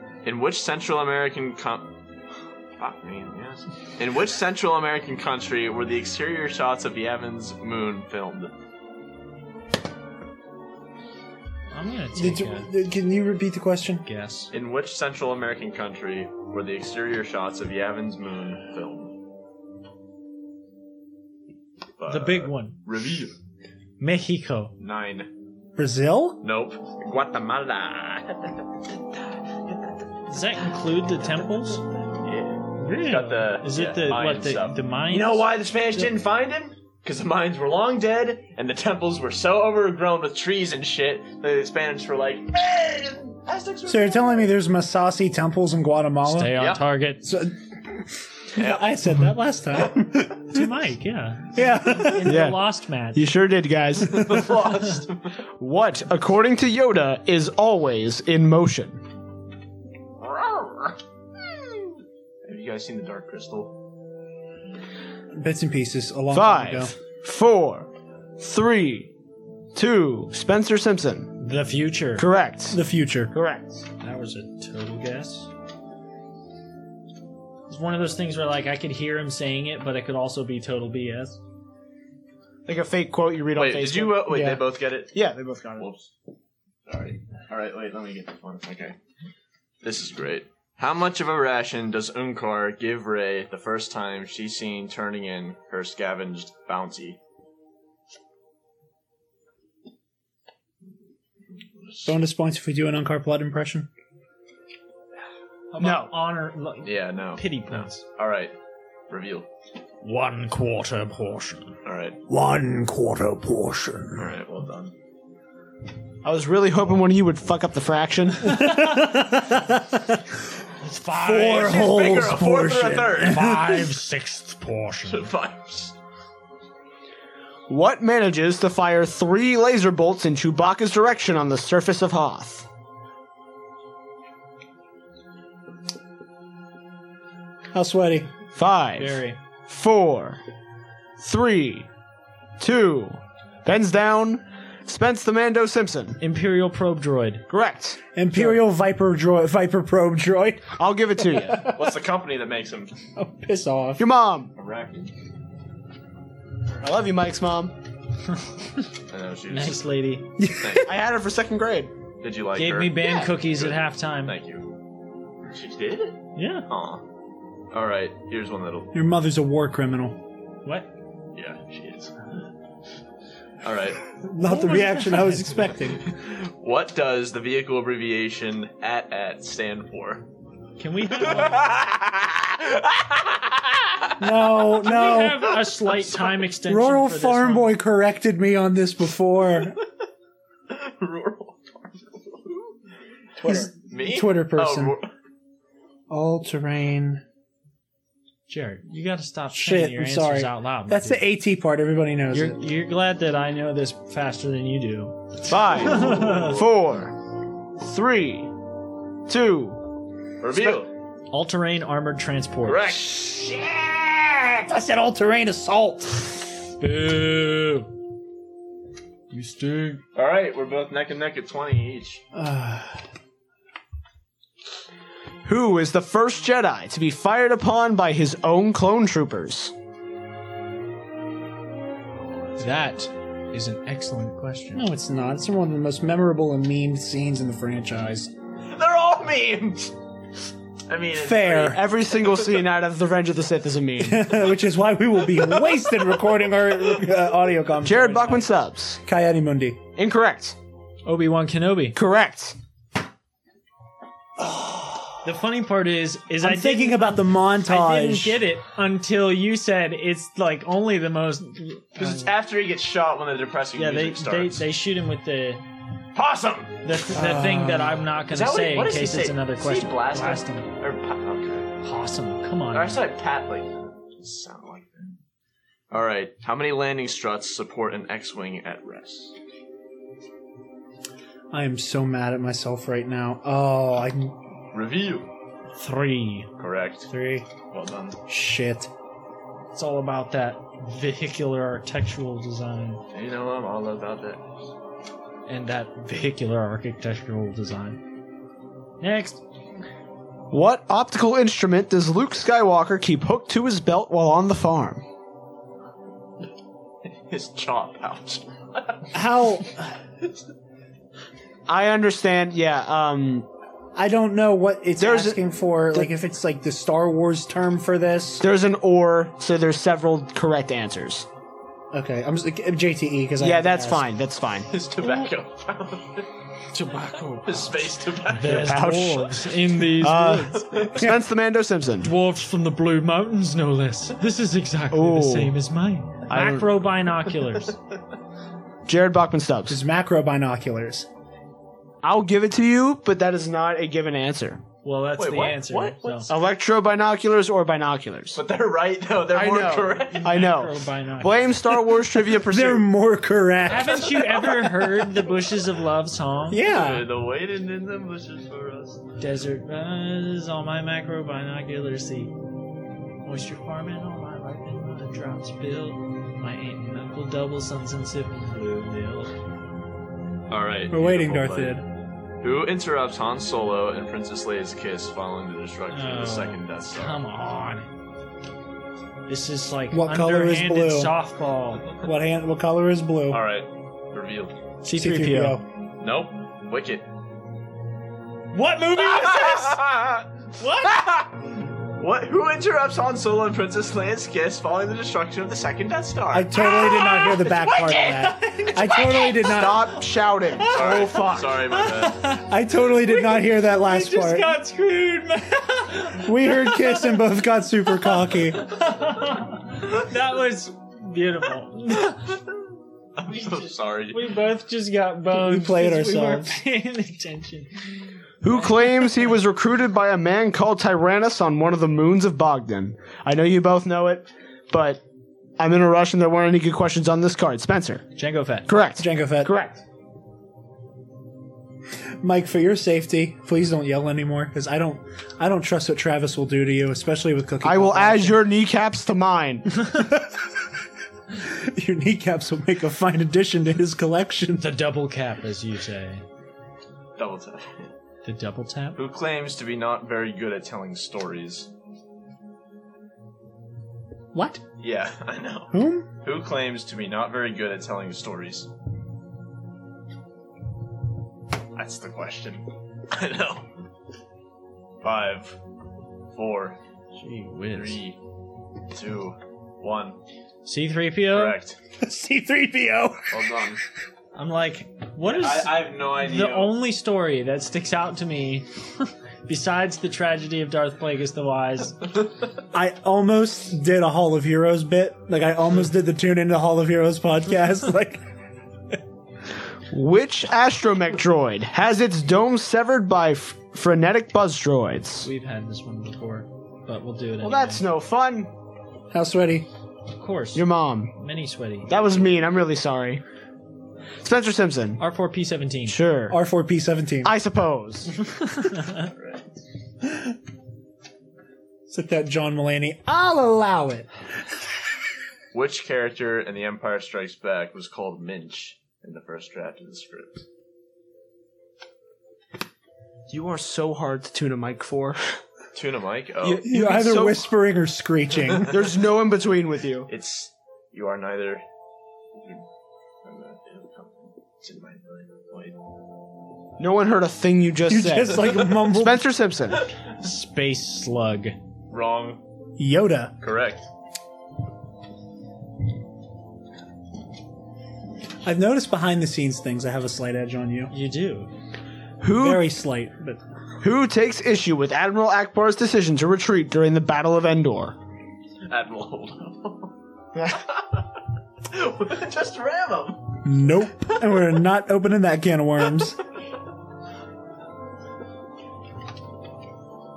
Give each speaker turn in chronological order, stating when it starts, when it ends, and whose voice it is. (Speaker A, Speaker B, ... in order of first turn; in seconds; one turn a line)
Speaker A: 0.2-1.9
Speaker A: 2.8-8.5
Speaker B: 11.7-12.7
Speaker C: 12.2-14.1
Speaker B: 14.1-14.5
Speaker A: 14.5-19.1
Speaker A: 22.0-23.4
Speaker B: 22.1-22.8
Speaker B: 24.0-24.7
Speaker A: 24.8-25.3
Speaker C: 25.8-26.4
Speaker A: 26.4-30.0
Speaker B: 30.3-31.8
Speaker A: 30.6-44.5
Speaker B: 32.8-35.5
Speaker C: 43.9-46.5
Speaker B: 46.2-47.3
Speaker A: 46.6-46.8
Speaker C: 47.2-50.7
Speaker A: 48.5-49.0
Speaker B: 50.5-53.3
Speaker C: 51.5-52.5
Speaker D: 52.2-54.4
Speaker A: 54.0-55.3
Speaker C: 54.1-54.4
Speaker D: 55.6-59.0
Speaker A: 60.2-61.0
Speaker A: 62.4-63.8
Speaker C: 65.3-66.9
Speaker D: 66.3-67.9
Speaker D: 68.4-69.1
Speaker D: 69.7-71.3
Speaker B: 71.4-72.3
Speaker D: 72.2-72.8
Speaker C: 72.7-73.3
Speaker D: 73.3-73.8
Speaker B: 74.0-75.5
Speaker B: 77.7-81.4
Speaker D: 82.7-84.6
Speaker A: 83.5-85.2
Speaker C: 84.3-84.6
Speaker D: 85.1-85.9
Speaker A: 85.8-86.1
Speaker A: 86.9-89.0
Speaker A: 89.8-97.2
Speaker A: 101.8-102.1
Speaker C: 102.0-103.9
Speaker B: 105.7-108.0
Speaker D: 105.8-106.1
Speaker A: 106.8-108.5
Speaker A: 109.1-109.5
Speaker B: 110.0-111.8
Speaker A: 111.8-112.2
Speaker C: 112.3-114.3
Speaker A: 114.2-114.9
Speaker D: 116.2-118.6
Speaker C: 118.4-120.4
Speaker B: 120.8-121.9
Speaker C: 121.1-124.0
Speaker A: 121.4-123.5
Speaker B: 123.2-125.3
Speaker A: 125.1-125.9
Speaker D: 127.7-132.7
Speaker C: 137.7-138.3
Speaker D: 138.6-140.4
Speaker B: 139.0-139.4
Speaker D: 141.2-141.9
Speaker D: 142.6-146.2
Speaker B: 146.2-147.4
Speaker D: 147.5-148.0
Speaker C: 148.2-152.0
Speaker D: 150.8-151.7
Speaker A: 151.6-152.9
Speaker C: 153.2-154.0
Speaker D: 154.0-154.5
Speaker A: 154.6-155.1
Speaker D: 156.8-157.7
Speaker A: 159.1-159.8
Speaker B: 159.5-160.3
Speaker C: 160.4-160.9
Speaker A: 160.6-160.9
Speaker D: 160.8-161.9
Speaker A: 162.2-164.7
Speaker B: 162.6-164.4
Speaker A: 165.5-167.0
Speaker B: 166.4-166.7
Speaker A: 167.7-168.9
Speaker C: 168.9-170.2
Speaker A: 171.3-172.3
Speaker A: 173.6-174.0
Speaker C: 174.2-176.1
Speaker B: 174.4-175.6
Speaker A: 176.0-180.3
Speaker B: 180.8-181.8
Speaker A: 181.2-184.2
Speaker C: 184.2-185.5
Speaker B: 184.8-187.7
Speaker C: 186.7-189.8
Speaker A: 190.7-192.7
Speaker A: 193.4-195.1
Speaker C: 193.4-195.0
Speaker C: 196.1-197.2
Speaker B: 198.5-201.2
Speaker C: 199.5-202.6
Speaker B: 202.3-206.6
Speaker D: 205.5-207.2
Speaker A: 205.6-206.6
Speaker D: 207.8-208.5
Speaker D: 209.3-209.8
Speaker A: 210.4-210.9
Speaker D: 210.5-210.8
Speaker B: 211.3-213.0
Speaker A: 212.6-213.3
Speaker C: 213.0-216.5
Speaker B: 216.8-217.9
Speaker B: 219.3-220.0
Speaker A: 220.2-222.2
Speaker C: 222.3-223.0
Speaker D: 225.4-229.7
Speaker A: 232.1-233.1
Speaker B: 232.6-234.9
Speaker C: 234.8-238.3
Speaker A: 238.7-239.9
Speaker A: 240.9-242.6
Speaker C: 241.1-241.8
Speaker D: 241.6-244.3
Speaker C: 244.0-248.5
Speaker A: 245.3-246.1
Speaker D: 247.8-249.0
Speaker C: 249.0-249.8
Speaker D: 250.0-250.6
Speaker B: 251.1-252.0
Speaker D: 251.9-252.6
Speaker C: 254.4-255.2
Speaker B: 255.2-262.3
Speaker C: 256.4-258.4
Speaker A: 262.0-264.6
Speaker B: 263.8-265.6
Speaker A: 266.1-266.8
Speaker B: 266.8-270.7
Speaker C: 267.1-268.1
Speaker A: 268.3-271.7
Speaker B: 271.8-273.0
Speaker A: 272.7-275.2
Speaker A: 275.9-279.3
Speaker C: 281.5-284.4
Speaker A: 284.7-285.3
Speaker B: 285.8-286.5
Speaker A: 286.6-287.1
Speaker B: 287.1-287.4
Speaker A: 287.7-288.2
Speaker C: 288.3-288.9
Speaker B: 289.7-293.0
Speaker A: 293.1-294.4
Speaker B: 295.5-298.0
Speaker B: 299.0-299.4
Speaker D: 300.5-305.0
Speaker A: 307.3-309.1
Speaker C: 309.1-309.9
Speaker D: 311.7-313.5
Speaker C: 313.9-318.5
Speaker D: 315.0-315.4
Speaker D: 318.4-321.3
Speaker C: 321.9-324.1
Speaker D: 323.4-324.7
Speaker A: 324.7-326.3
Speaker B: 326.7-330.6
Speaker A: 327.4-328.8
Speaker D: 328.4-332.1
Speaker A: 330.5-331.1
Speaker B: 332.0-337.8
Speaker D: 334.9-335.5
Speaker D: 336.3-336.8
Speaker D: 338.9-339.8
Speaker C: 339.7-341.1
Speaker D: 342.0-344.6
Speaker B: 344.8-346.3
Speaker A: 345.2-346.3
Speaker D: 346.3-348.4
Speaker A: 348.3-350.5
Speaker D: 349.3-352.9
Speaker B: 350.1-351.7
Speaker C: 352.4-354.5
Speaker B: 353.7-356.6
Speaker C: 356.5-357.1
Speaker A: 356.6-359.0
Speaker B: 359.2-362.3
Speaker B: 363.2-369.3
Speaker A: 370.5-371.8
Speaker C: 370.9-371.9
Speaker A: 372.4-377.2
Speaker B: 375.9-377.9
Speaker B: 379.3-381.9
Speaker C: 379.9-381.1
Speaker C: 382.0-383.4
Speaker A: 383.3-384.6
Speaker B: 384.8-385.6
Speaker C: 384.9-385.6
Speaker A: 386.0-387.1
Speaker B: 388.5-389.8
Speaker A: 389.0-390.3
Speaker B: 390.6-391.0
Speaker A: 390.8-391.3
Speaker A: 392.0-397.1
Speaker C: 396.3-400.0
Speaker B: 396.6-399.4
Speaker A: 397.7-398.2
Speaker D: 399.4-401.5
Speaker B: 400.6-402.5
Speaker A: 400.7-402.4
Speaker C: 402.4-404.6
Speaker B: 403.1-407.2
Speaker C: 406.2-408.7
Speaker B: 408.2-412.3
Speaker A: 413.2-414.3
Speaker B: 413.3-417.9
Speaker C: 415.3-416.6
Speaker D: 418.4-425.0
Speaker B: 418.5-419.3
Speaker D: 425.6-428.1
Speaker B: 428.1-428.7
Speaker D: 428.7-429.8
Speaker C: 429.0-429.5
Speaker C: 432.2-438.4
Speaker D: 437.6-439.7
Speaker C: 439.8-440.4
Speaker C: 441.3-444.7
Speaker B: 444.6-446.2
Speaker A: 447.2-447.9
Speaker B: 448.2-449.0
Speaker A: 449.0-451.7
Speaker C: 454.3-454.6
Speaker A: 454.8-458.7
Speaker C: 455.7-456.1
Speaker A: 461.8-463.7
Speaker A: 465.0-465.6
Speaker A: 466.3-466.8
Speaker B: 467.2-468.0
Speaker A: 467.7-468.2
Speaker A: 468.9-470.2
Speaker B: 470.6-471.6
Speaker A: 471.3-471.8
Speaker C: 472.0-473.7
Speaker A: 473.3-473.8
Speaker B: 474.4-482.1
Speaker A: 475.2-476.8
Speaker C: 482.7-488.2
Speaker D: 489.9-495.3
Speaker B: 495.2-497.9
Speaker D: 497.4-498.5
Speaker C: 499.1-499.7
Speaker B: 500.1-502.0
Speaker D: 500.6-501.1
Speaker D: 501.9-503.2
Speaker A: 502.0-502.4
Speaker D: 504.2-505.0
Speaker B: 505.0-506.0
Speaker D: 505.9-506.4
Speaker C: 506.3-507.3
Speaker D: 507.2-508.1
Speaker B: 508.6-509.0
Speaker A: 509.0-509.4
Speaker C: 510.0-510.4
Speaker C: 511.9-514.1
Speaker A: 515.5-520.4
Speaker D: 523.3-525.4
Speaker A: 525.8-526.6
Speaker D: 526.4-527.5
Speaker C: 526.6-528.7
Speaker D: 528.7-530.1
Speaker A: 530.1-531.6
Speaker A: 532.4-532.6
Speaker A: 533.2-535.8
Speaker D: 536.8-539.9
Speaker C: 537.9-539.2
Speaker B: 540.2-541.5
Speaker A: 541.9-542.4
Speaker C: 542.8-543.3
Speaker A: 543.4-543.9
Speaker C: 548.4-550.9
Speaker B: 550.9-551.5
Speaker D: 552.2-552.7
Speaker C: 552.3-553.4
Speaker D: 553.8-558.0
Speaker A: 558.7-559.9
Speaker A: 560.5-561.0
Speaker A: 561.7-563.4
Speaker C: 563.4-566.2